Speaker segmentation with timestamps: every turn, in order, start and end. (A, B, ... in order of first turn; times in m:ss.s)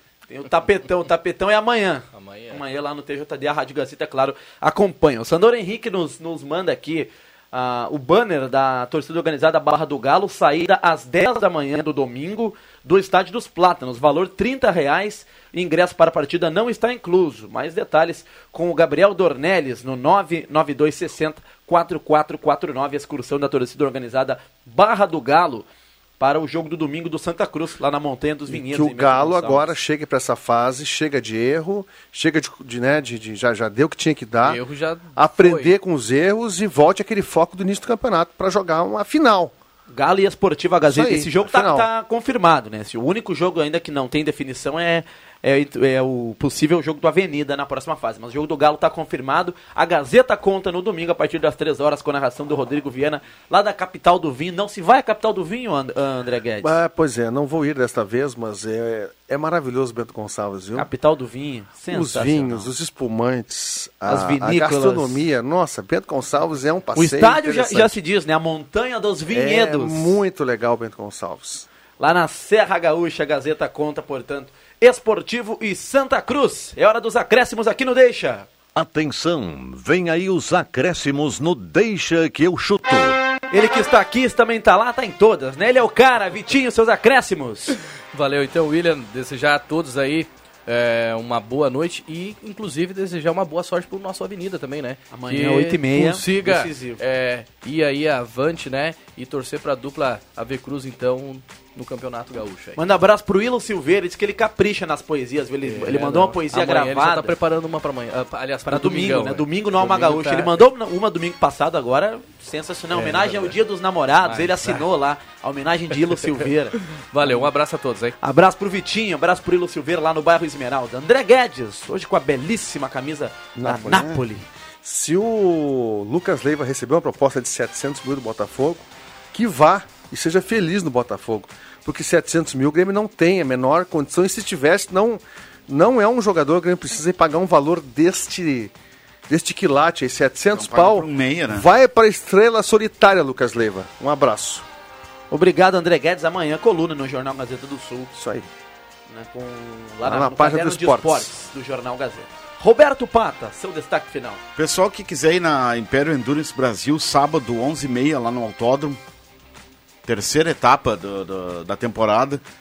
0:00.3-0:25.7 A
0:02.1-0:02.6 B
0:26.2-0:29.7 A
0:28.5-0:34.6 C
0:34.4-0:35.8 B
0:35.1-0:39.5 C
0:39.9-0:56.7 A
0:40.8-0:41.9 C
0:56.6-1:00.9 C
1:00.7-1:02.7 A
1:01.9-1:08.0 C
1:04.1-1:05.2 A
1:06.9-1:10.2 A
1:09.3-1:11.7 C
1:12.0-1:18.5 A
1:18.7-1:23.2 D
1:23.5-1:27.8 A
1:28.1-1:42.8 B
1:35.1-1:37.0 A
1:42.8-1:47.3 A
1:45.6-1:50.6 B
1:48.6-1:57.5 A
1:52.9-1:53.6 B
1:54.2-1:54.8 B
1:56.9-1:58.1 B
1:58.2-2:04.5 A
2:03.6-2:04.2 C
2:04.8-2:18.7 C
2:19.3-2:24.6 C
2:20.5-2:21.6 E
2:25.3-2:28.1 A
2:28.1-2:28.5 C
2:29.1-2:34.4 A
2:30.0-2:31.3 C
2:34.6-2:39.0 E
2:40.0-2:42.4 E